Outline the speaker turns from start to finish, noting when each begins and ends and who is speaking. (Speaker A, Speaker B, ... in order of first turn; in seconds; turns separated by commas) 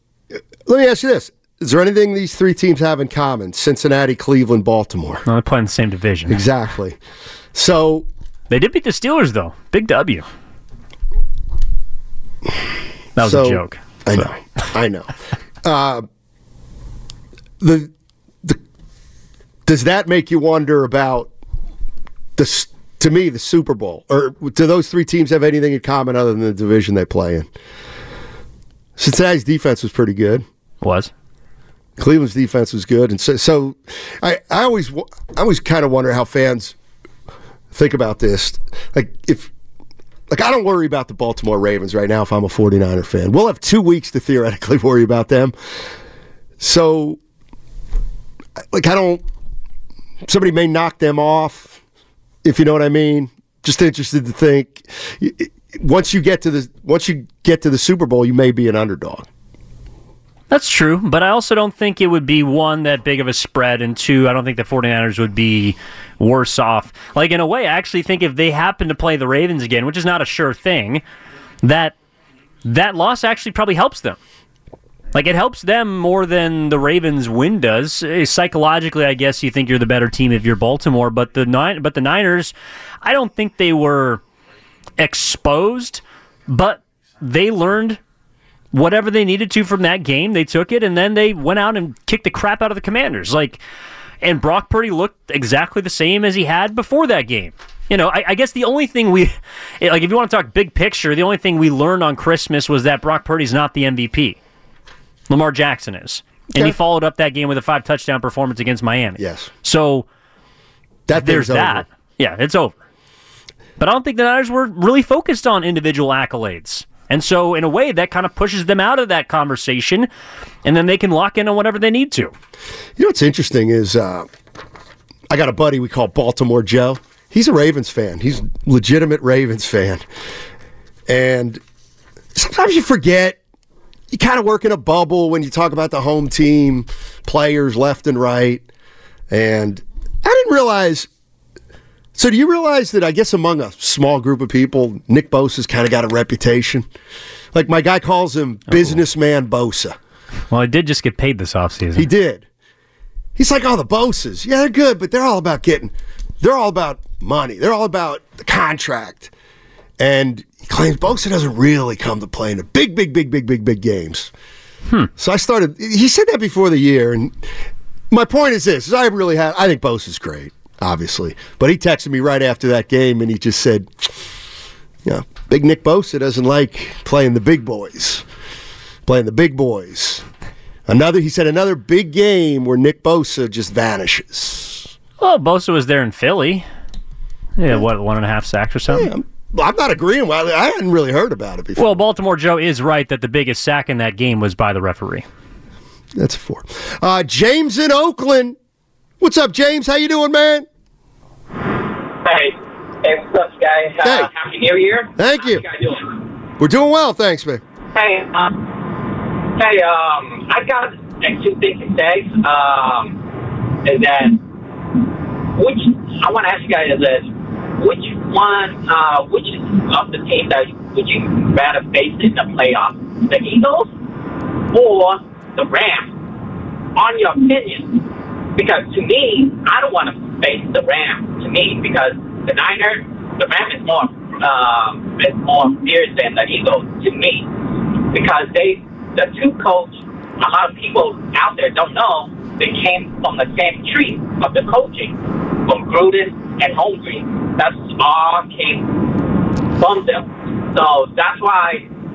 Speaker A: 0.7-5.2, Speaker B: 5.2-6.4, Speaker A: 6.3-7.0, Speaker A: 7.5-8.1, Speaker B: 8.5-10.2, Speaker B: 13.2-14.2, Speaker A: 13.2-16.1, Speaker A: 17.6-17.9, Speaker A: 19.6-21.3, Speaker A: 22.4-27.5, Speaker A: 29.0-30.4, Speaker B: 30.8-31.1, Speaker A: 32.0-36.7, Speaker A: 37.7-39.5, Speaker A: 40.3-45.5, Speaker A: 46.6-47.2, Speaker A: 48.7-49.2, Speaker A: 50.2-51.8, Speaker A: 52.4-59.3, Speaker B: 60.5-71.0, Speaker B: 71.6-72.0, Speaker B: 72.6-74.2, Speaker B: 75.1-84.2, Speaker B: 85.0-88.0, Speaker B: 88.7-93.6, Speaker B: 94.2-104.4, Speaker B: 105.3-110.0, Speaker A: 109.2-109.5, Speaker A: 111.1-111.8, Speaker B: 111.1-112.8, Speaker B: 113.8-120.1, Speaker B: 120.6-122.3, Speaker A: 123.0-124.3, Speaker A: 125.3-130.0, Speaker A: 131.1-131.6, Speaker A: 132.3-133.4, Speaker A: 134.1-138.6, Speaker A: 139.3-141.1, Speaker A: 142.1-146.8, Speaker A: 147.5-149.9, Speaker B: 150.5-152.1, Speaker A: 151.9-152.4, Speaker A: 153.3-159.3, Speaker A: 160.0-164.3, Speaker A: 165.2-167.3, Speaker A: 168.1-174.1, Speaker A: 175.0-178.2, Speaker A: 179.1-180.2, Speaker A: 180.9-184.9, Speaker B: 185.2-186.7, Speaker B: 187.6-189.1, Speaker A: 188.9-191.9, Speaker B: 191.8-195.2, Speaker A: 196.2-198.6, Speaker A: 199.2-200.7, Speaker C: 202.2-206.2, Speaker A: 204.0-204.3, Speaker A: 205.2-205.6, Speaker A: 206.6-207.6, Speaker C: 207.9-208.7, Speaker C: 209.6-213.2, Speaker C: 213.8-214.4, Speaker C: 215.6-223.9, Speaker C: 224.7-226.2, Speaker C: 226.9-237.5, Speaker C: 238.1-249.0, Speaker C: 249.8-251.9